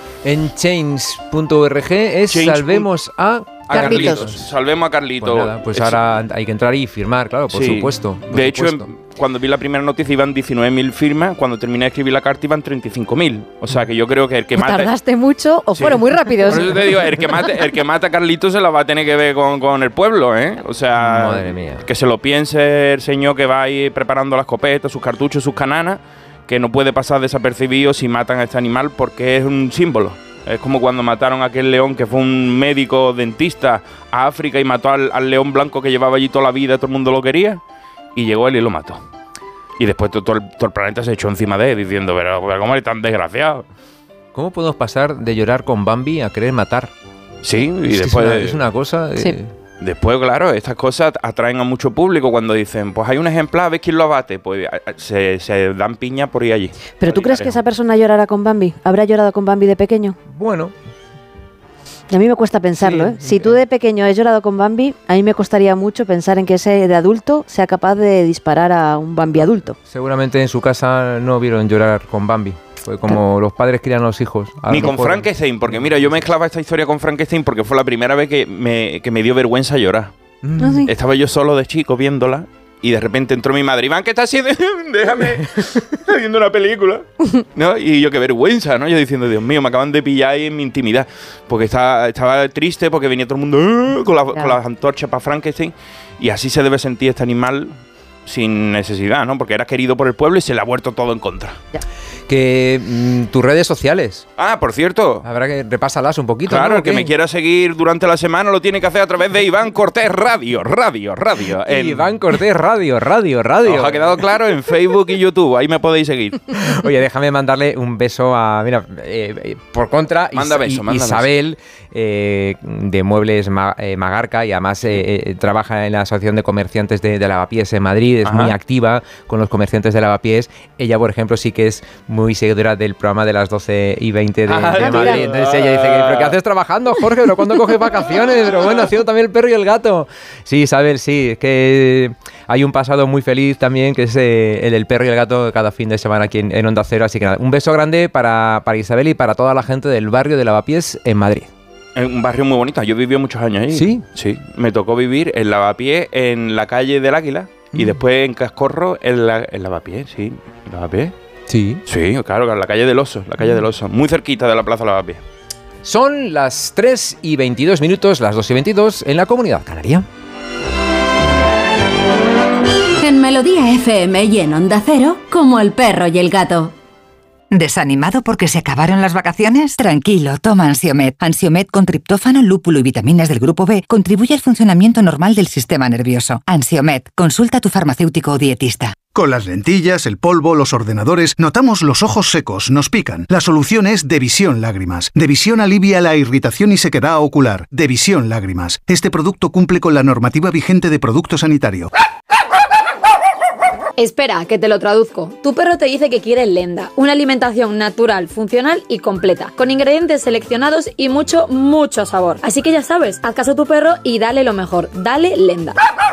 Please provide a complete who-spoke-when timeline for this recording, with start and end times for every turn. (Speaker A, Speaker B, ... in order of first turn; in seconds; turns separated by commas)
Speaker A: 0.2-4.5, Speaker B: 2.3-2.9, Speaker B: 3.7-6.0, Speaker C: 3.7-4.2, Speaker A: 5.2-8.9, Speaker B: 7.5-14.9, Speaker C: 14.5-17.4, Speaker B: 15.7-37.6, Speaker A: 21.0-21.8, Speaker B: 38.1-39.0, Speaker B: 39.8-43.6, Speaker A: 44.3-46.9, Speaker B: 47.4-48.6, Speaker A: 47.9-49.5, Speaker B: 49.8-57.6, Speaker C: 57.0-60.2, Speaker A: 60.3-60.7, Speaker C: 62.1-69.8, Speaker A: 62.8-63.5, Speaker A: 69.9-75.7, Speaker B: 74.7-80.1, Speaker A: 80.4-80.8, Speaker C: 80.6-80.9, Speaker B: 80.8-97.7, Speaker B: 98.2-101.6, Speaker A: 102.3-104.2, Speaker B: 104.4-105.2, Speaker A: 105.2-107.1, Speaker B: 106.5-112.1, Speaker A: 111.7-114.0, Speaker B: 113.6-116.4, Speaker A: 116.7-151.5, Speaker B: 120.3-121.3, Speaker B: 128.2-128.5, Speaker B: 134.5-136.3, Speaker C: 134.8-135.1, Speaker B: 151.9-161.1, Speaker A: 153.7-154.0, Speaker A: 161.5-161.8, Speaker B: 161.8-165.2, Speaker A: 165.8-170.1, Speaker D: 173.0-176.7, Speaker E: 177.5-188.9, Speaker F: 189.1-201.9, Speaker G: 204.0-215.8